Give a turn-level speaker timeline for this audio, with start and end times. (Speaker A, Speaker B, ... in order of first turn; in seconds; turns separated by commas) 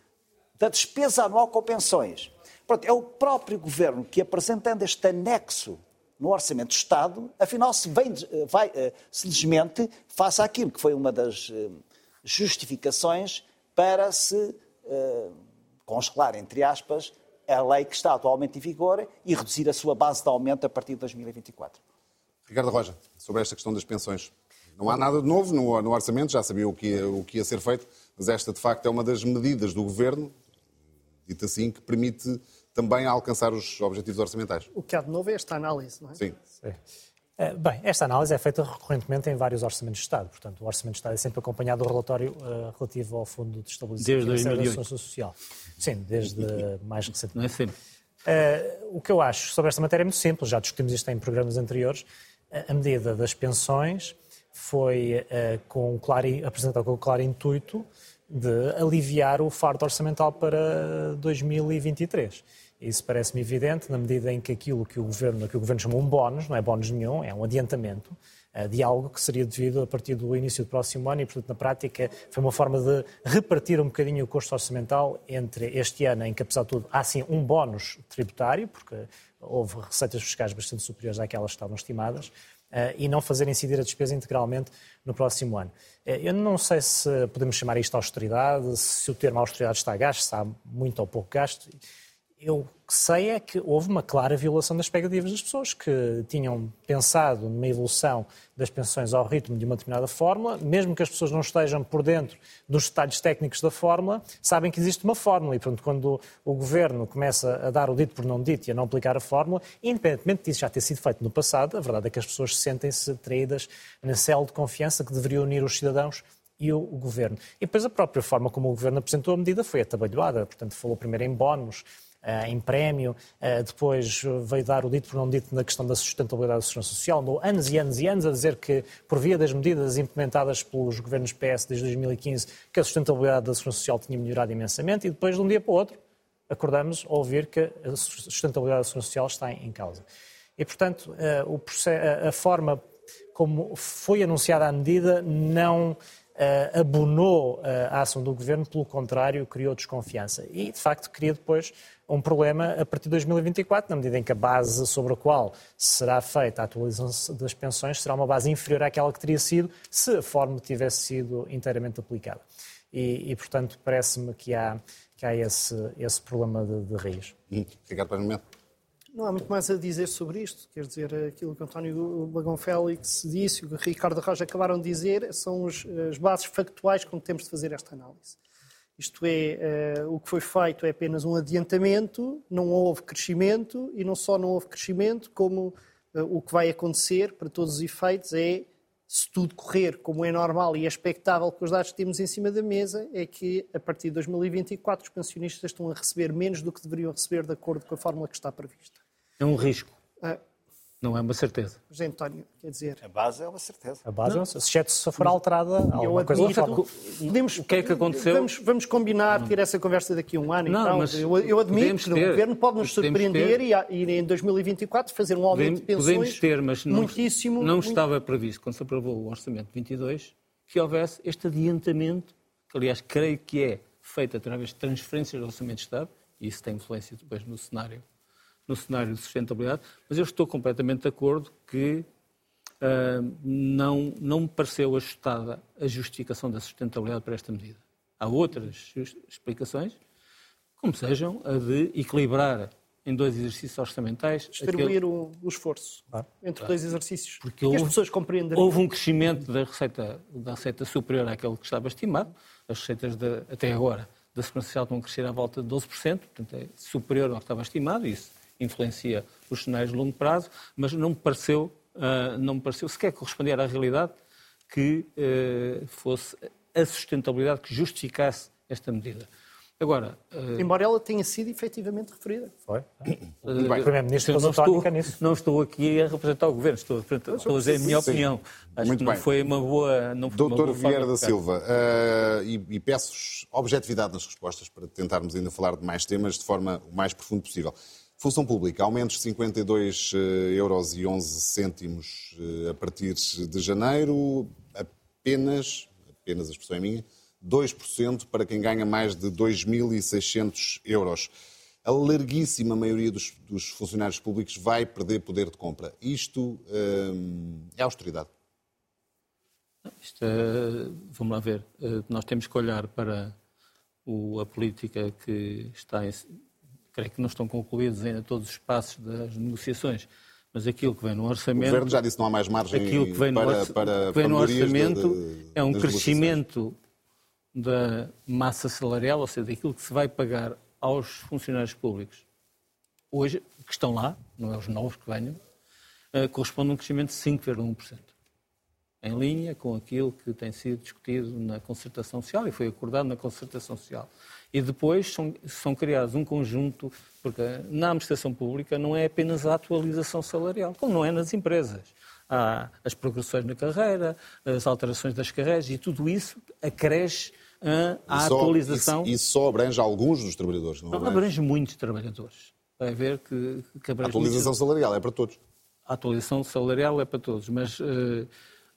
Speaker A: 0.6-15.3, Speaker A: 15.9-21.8, Speaker B: 22.5-30.4, Speaker B: 31.3-34.7, Speaker C: 34.7-36.2, Speaker D: 37.4-47.4, Speaker E: 44.0-44.8, Speaker E: 47.3-47.7, Speaker D: 48.2-91.7, Speaker D: 92.4-136.0, Speaker D: 136.5-140.0, Speaker D: 140.6-142.8, Speaker D: 143.3-167.3, Speaker B: 167.5-168.4, Speaker C: 169.1-178.4, Speaker C: 179.0-199.0, Speaker E: 199.4-199.9, Speaker E: 201.0-201.8, Speaker C: 201.9-203.0, Speaker A: 203.0-204.0, Speaker D: 204.1-206.8, Speaker C: 205.9-218.0, Speaker E: 206.3-208.5, Speaker E: 210.6-213.6, Speaker E: 215.5-228.0, Speaker E: 228.7-232.1, Speaker E: 232.8-240.0, Speaker E: 240.8-244.9, Speaker C: 244.5-248.8, Speaker E: 247.4-247.9, Speaker E: 248.5-264.1, Speaker E: 264.7-269.3, Speaker E: 269.8-270.7, Speaker C: 270.6-272.5, Speaker D: 272.7-275.1, Speaker E: 273.4-281.3, Speaker C: 277.3-278.0, Speaker B: 277.7-278.2, Speaker B: 278.8-279.2, Speaker B: 280.3-301.3, Speaker B: 301.8-308.3, Speaker E: 309.8-313.3, Speaker E: 314.1-316.3, Speaker E: 316.9-321.9, Speaker B: 321.6-326.4, Speaker E: 322.7-326.8, Speaker E: 327.5-332.2, Speaker E: 333.1-335.4, Speaker E: 336.1-338.1, Speaker E: 339.0-359.1, Speaker B: 358.1-361.2, Speaker E: 360.9-364.5, Speaker B: 364.0-365.4, Speaker E: 365.9-368.3